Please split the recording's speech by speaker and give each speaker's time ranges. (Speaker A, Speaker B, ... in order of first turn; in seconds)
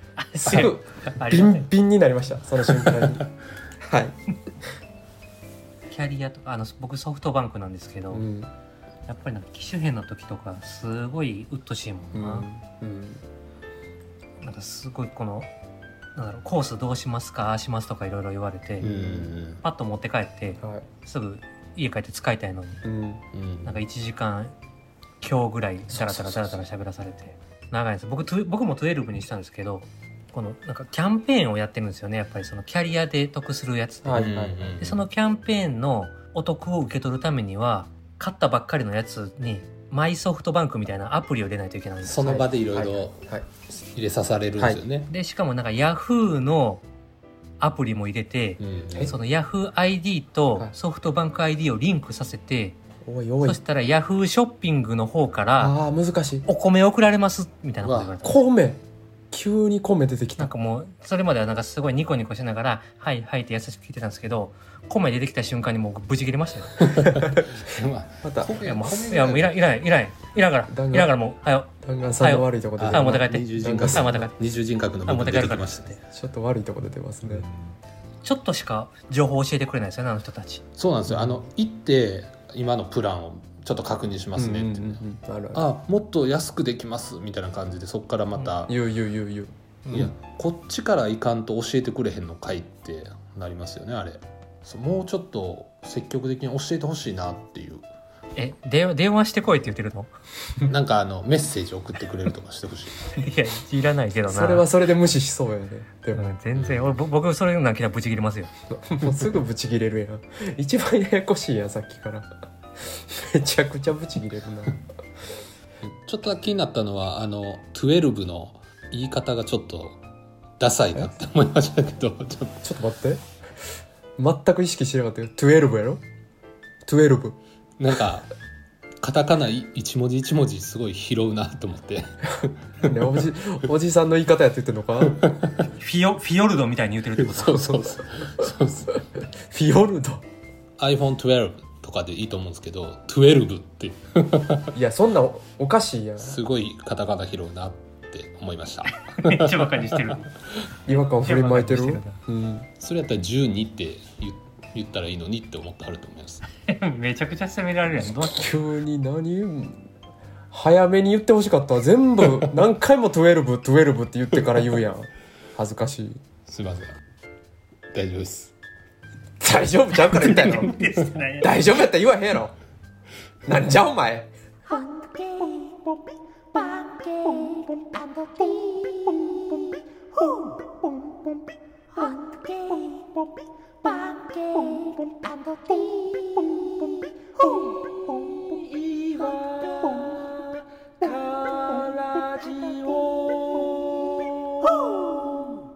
Speaker A: 0.2-1.7, 5.9-8.3, 9.1-12.5, 14.4-15.5, 16.2-18.9, 19.6-22.9, 23.7-24.5, 25.2-34.3, 34.8-42.3, 45.1-46.8, 47.6-52.8, 53.4-55.7, 56.5-58.5, 60.4-67.1, 68.6-74.3, 75.0-76.0, 78.2-80.6, 98.4-100.1, 103.1-104.7, 106.1-108.5, 135.8-137.8, 149.0-150.3, 150.9-152.2, 156.5-158.5, 170.2-171.6, 174.7-175.8, 176.6-179.1, 182.0-183.0, 184.0-186.2
Speaker B: 0.4-3.2, 3.8-4.2, 8.1-8.5, 12.1-13.2, 18.8-19.3, 20.6-20.9, 22.9-23.2, 25.9-26.6, 34.0-34.8, 42.2-43.5, 44.6-44.8, 53.0-53.6, 55.6-56.5, 58.2-60.5, 68.2-68.6, 70.7-71.1, 71.8-74.3, 76.1-77.5, 81.1-81.4, 84.4-85.7, 88.6-90.1, 104.3-106.3, 108.7-112.3, 112.9-114.8, 122.6-123.2, 124.2-126.0, 126.9-127.4, 132.8-135.2, 139.5-140.2, 144.8-146.4, 150.9-152.7, 158.1-159.9, 160.5-166.2, 169.4-172.6, 173.5-174.3
Speaker C: 2.7-3.2, 18.8-19.6, 23.3-23.8, 34.1-35.0, 42.0-43.2, 43.7-45.1, 48.6-49.1, 57.8-58.1, 66.8-69.6, 72.8-75.9, 77.2-77.8, 80.8-85.0, 85.5-88.8, 89.9-97.9, 100.7-103.1, 106.6-106.9, 115.8-120.0, 120.6-122.7, 127.8-128.3, 129.0-133.2, 135.1-135.5, 137.2-139.0, 140.8-144.7, 146.2-150.2, 152.8-156.4, 166.5-167.0, 167.9-168.5, 170.3-170.8, 188.6-190.3, 191.0-193.7